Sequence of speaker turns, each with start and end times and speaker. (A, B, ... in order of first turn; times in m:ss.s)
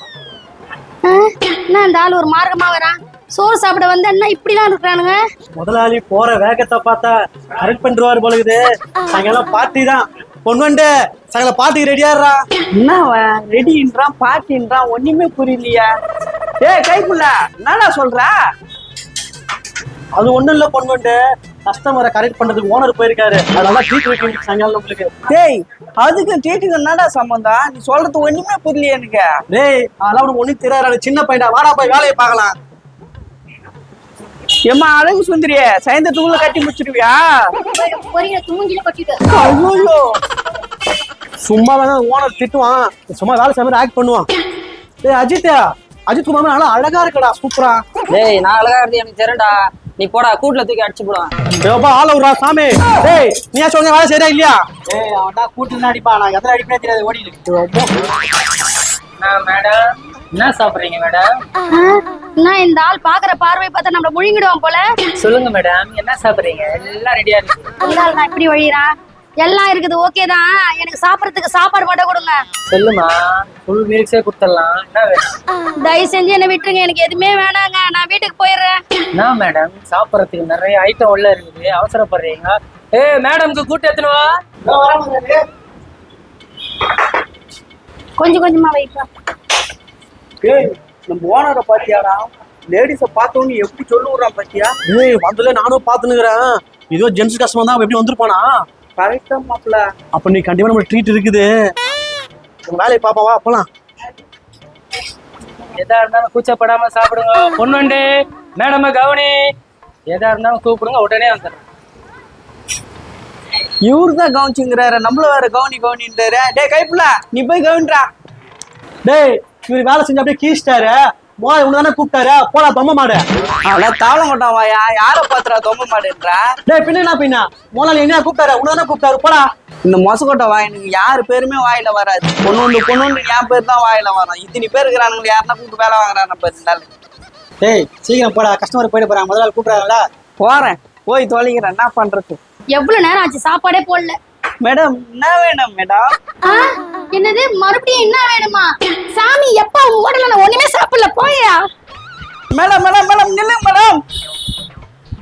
0:01.0-0:05.2 A
0:05.6-0:12.4 B
0:12.8-0:15.9 C
0:16.6-0:18.3 C
0:20.2-0:25.2 B
0:25.3-0:29.3 C
0:29.5-0:32.6 B
0:34.6-0:37.5 C
0:37.7-0:39.2 A
0:39.3-0:40.1 C
0:41.4-0:44.3 B
0:45.0-0:47.8 B
0:48.1-0:51.3 D
0:51.6-0:54.6 B
0:54.9-0:57.4 E
0:57.5-0:57.9 B
0:59.2-1:01.3 F
1:01.7-1:04.8 A
1:05.2-1:07.7 F
1:07.8-1:12.4 A
1:12.7-1:15.3 F
1:15.8-1:18.8 A
1:19.1-1:24.3 F
1:24.7-1:25.3 B
1:28.2-1:29.1 A
1:30.4-1:34.8 C
1:34.8-1:38.5 B
1:39.0-1:39.8 C
1:40.1-1:41.5 B
1:42.7-1:43.7 B
1:45.8-1:48.0 F
1:48.6-1:49.4 F
1:50.1-1:51.6 F
1:53.8-1:58.1 C
1:59.0-2:03.2 B
2:03.6-2:06.5 C
2:06.7-2:09.4 B
2:09.8-2:16.9 C
2:17.6-2:20.0 E
2:20.4-2:22.4 C
2:22.7-2:24.2 A
2:24.6-2:26.1 C
2:26.4-2:31.6 A
2:32.5-2:34.0 C